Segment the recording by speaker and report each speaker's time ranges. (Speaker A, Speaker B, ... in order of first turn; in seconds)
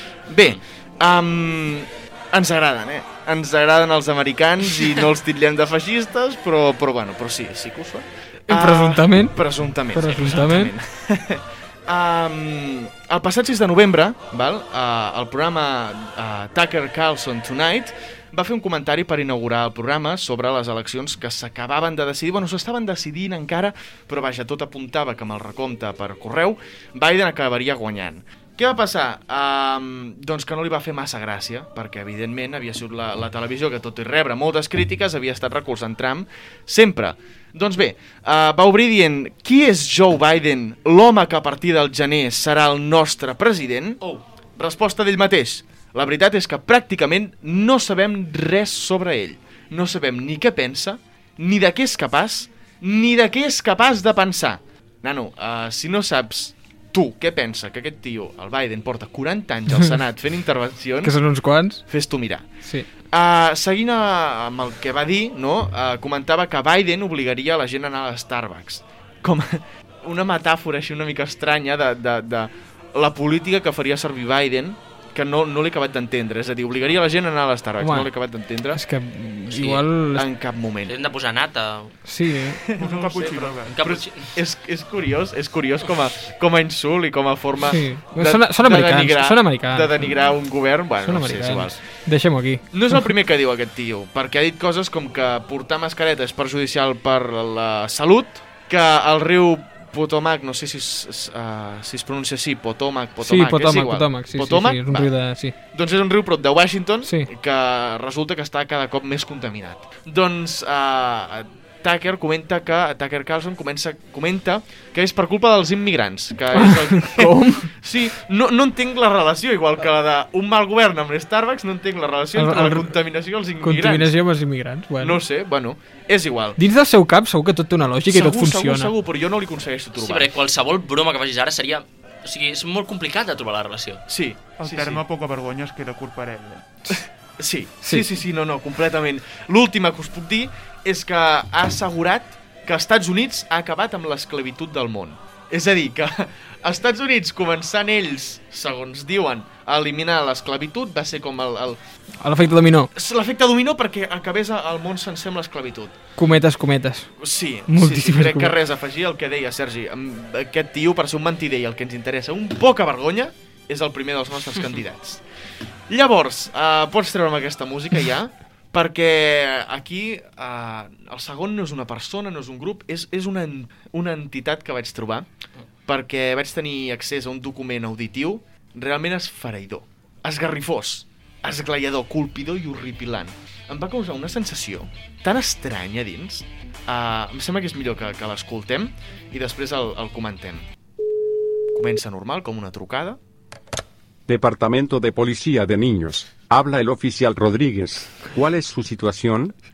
Speaker A: 0.3-44.0, 44.6-61.1, 61.9-62.5, 63.1-78.8, 80.2-80.9, 82.8-91.8, 92.7-105.1, 105.7-124.1, 125.0-126.6, 128.1-130.3, 134.1-135.0, 137.4-151.8, 152.9-155.9, 157.2-165.2, 165.9-175.3, 175.9-190.7, 191.7-193.2
Speaker B: 8.5-9.4, 9.9-10.7, 61.0-61.8, 77.8-78.1, 78.7-80.2, 82.1-82.6, 87.7-90.0, 91.0-92.6, 103.2-105.5, 116.5-117.7, 122.4-122.9, 123.6-125.2, 126.6-128.9, 152.2-152.9, 156.2-157.1, 157.7-158.5
Speaker C: 79.5-79.8, 80.9-82.0, 83.2-84.3, 129.9-134.0
Speaker D: 82.8-83.8, 134.6-136.8
Speaker E: 194.3-199.5